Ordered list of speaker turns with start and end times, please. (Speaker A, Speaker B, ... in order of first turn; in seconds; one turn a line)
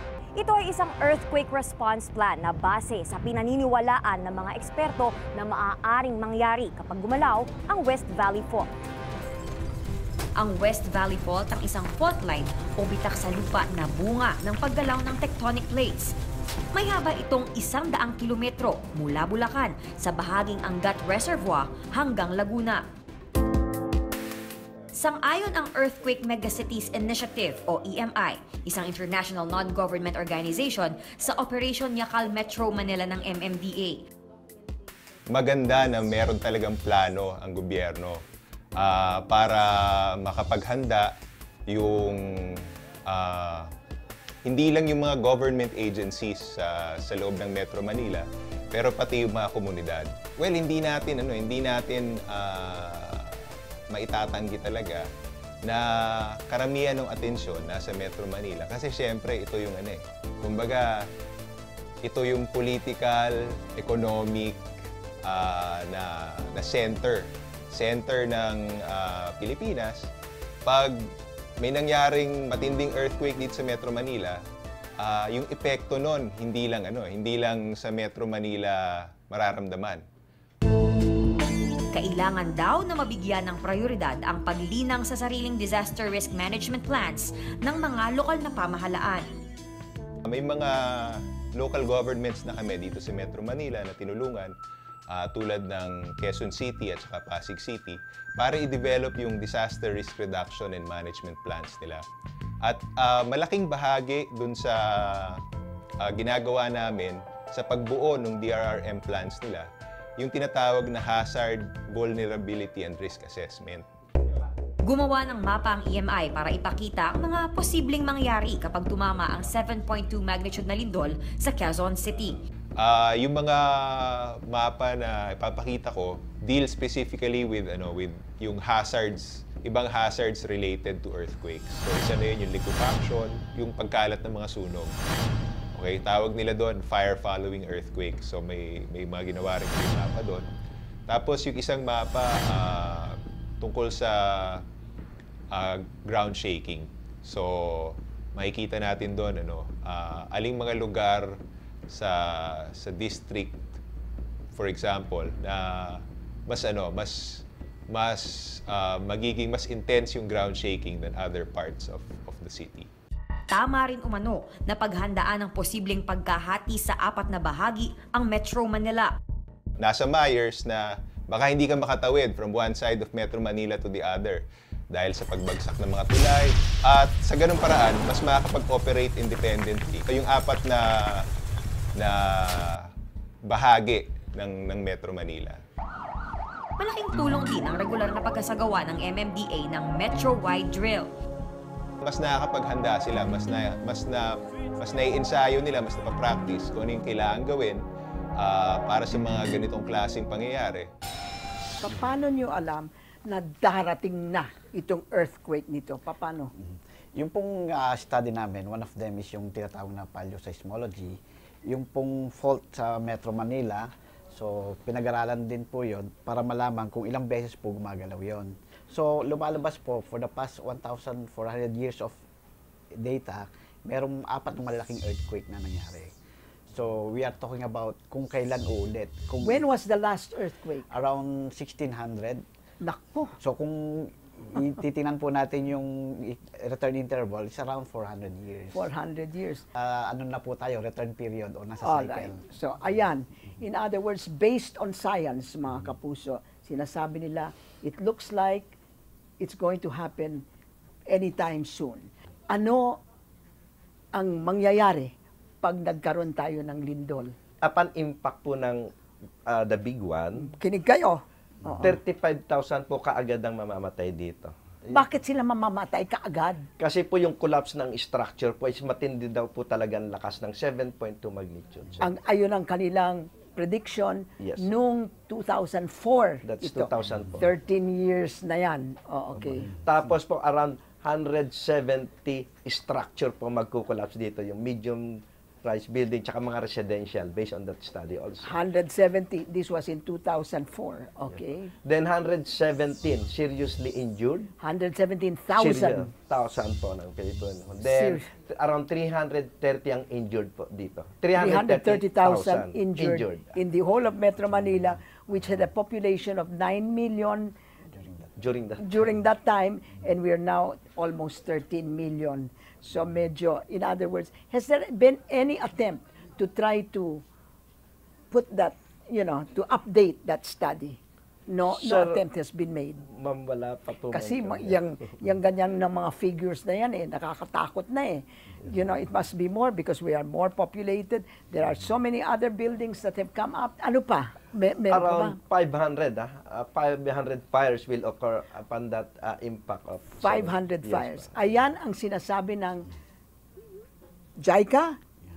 Speaker A: 0.3-8.7
Speaker B: 10.4-16.1
Speaker B: 16.7-22.8
Speaker B: 24.9-34.0
Speaker C: 35.3-38.2
Speaker C: 38.8-41.1
Speaker C: 41.7-43.7
Speaker C: 44.4-55.0
Speaker C: 55.6-60.9
Speaker C: 62.0-64.6
Speaker C: 65.2-70.1
Speaker C: 70.6-74.4
Speaker C: 75.0-80.0
Speaker B: 81.9-89.3
Speaker C: 90.2-94.5
Speaker C: 95.1-102.0
Speaker C: 102.6-105.4
Speaker C: 106.0-109.7
Speaker C: 110.2-113.8
Speaker B: 114.8-122.4
Speaker C: 122.8-134.9
Speaker C: 135.7-140.5
Speaker C: 141.1-144.6
Speaker C: 145.5-151.3
Speaker C: 151.9-153.6
Speaker C: 154.5-162.9
Speaker B: 163.5-169.1
Speaker C: 169.8-181.2
Speaker C: 181.9-182.9
Speaker C: 183.4-185.6
Speaker B: 186.8-191.1
Speaker C: 192.0-197.8
Speaker C: 198.4-200.9
Speaker D: 201.8-206.5
Speaker E: 206.6-222.2
Speaker E: 222.9-226.1
Speaker E: 226.7-229.6
Speaker D: 229.4-230.9
Speaker E: 230.9-232.4
Speaker D: 232.8-233.4
Speaker E: 233.4-238.9
Speaker D: 238.7-239.6
Speaker E: 239.7-242.4
Speaker D: 241.8-248.7
Speaker D: 249.4-250.4
Speaker D: 251.1-253.0
Speaker D: 254.1-257.3
Speaker F: 257.6-258.8
Speaker F: 259.5-260.5
Speaker D: 260.4-261.9
Speaker F: 261.8-264.5
Speaker D: 264.9-266.7
Speaker F: 266.8-272.1
Speaker D: 272.0-279.7
Speaker F: 274.4-274.6
Speaker F: 276.4-277.4
Speaker F: 279.8-288.6
Speaker D: 288.4-291.7
Speaker F: 291.8-294.5
Speaker D: 294.6-296.1
Speaker F: 295.5-303.5
Speaker D: 297.8-298.3
Speaker D: 301.4-307.5
Speaker F: 308.4-308.8
Speaker D: 308.8-317.2
Speaker D: 318.3-323.0
Speaker F: 321.6-322.2
Speaker F: 323.1-324.8
Speaker D: 324.1-335.4
Speaker F: 334.9-341.5
Speaker D: 340.2-342.9
Speaker D: 344.4-345.0